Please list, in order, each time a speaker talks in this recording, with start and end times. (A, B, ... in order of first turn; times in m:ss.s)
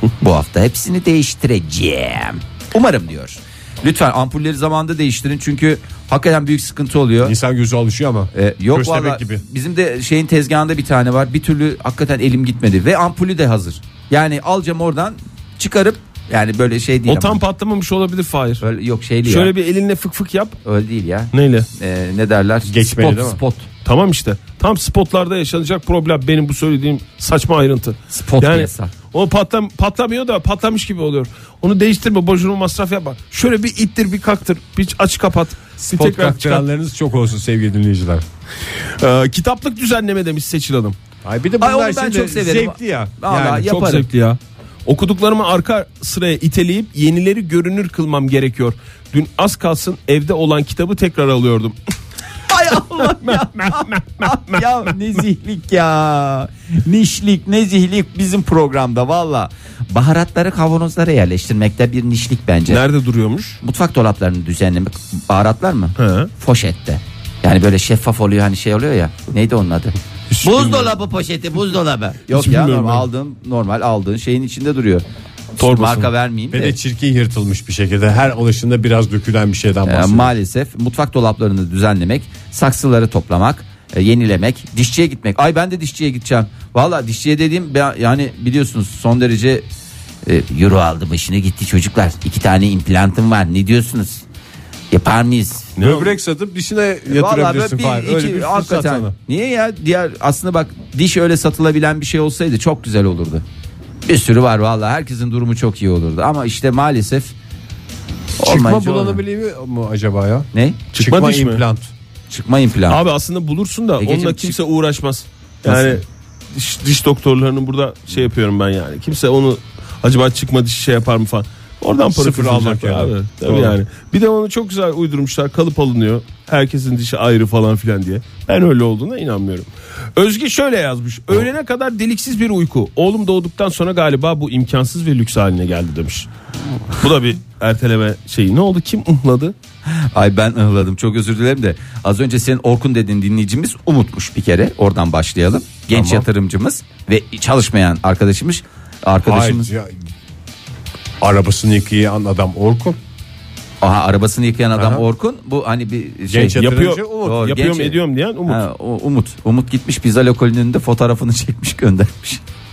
0:00.2-0:07.4 A
0:07.2-0:09.4 B
0:08.3-0:17.4 A
0:17.1-0:18.6 C
0:18.6-0:19.5 A
0:19.2-0:20.6 C
0:20.6-0:23.7 A
0:21.3-0:21.7 C
0:22.6-0:23.4 B
0:23.8-0:36.6 C
0:28.1-0:28.9 A
0:35.9-0:38.2 B
0:39.0-0:41.0 C
0:41.2-0:43.7 B
0:41.6-0:44.1 A
0:43.6-0:51.8 C
0:52.5-1:02.8 A
0:53.0-0:55.0 C
1:02.7-1:03.6 C
1:03.6-1:15.0 A
1:06.0-1:06.3 C
1:10.3-1:10.9 C
1:12.3-1:13.1 C
1:15.6-1:16.8 A
1:15.6-1:16.1 C
1:16.5-1:20.3 B
1:19.9-1:29.6 A
1:30.2-1:34.2 A
1:34.9-1:35.8 A
1:35.8-1:36.1 C
1:35.8-1:39.1 B
1:37.1-1:43.4 A
1:44.1-1:47.3 A
1:48.4-1:49.2 A
1:48.4-1:51.9 B
1:50.5-1:50.8 A
1:50.9-1:51.6 C
1:52.3-1:53.0 A
1:52.9-2:16.3 C
1:54.0-1:54.6 A
1:55.7-1:56.0 A
2:02.1-2:03.8 B
2:16.9-2:19.5 C
2:19.9-2:29.7 A
2:25.9-2:26.3 B
2:29.2-2:29.9 B
2:31.2-2:33.0 B
2:33.8-2:36.6 A
2:34.8-2:35.0 B
2:36.3-2:37.5 B
2:36.6-2:38.6 C
2:37.2-2:42.4 A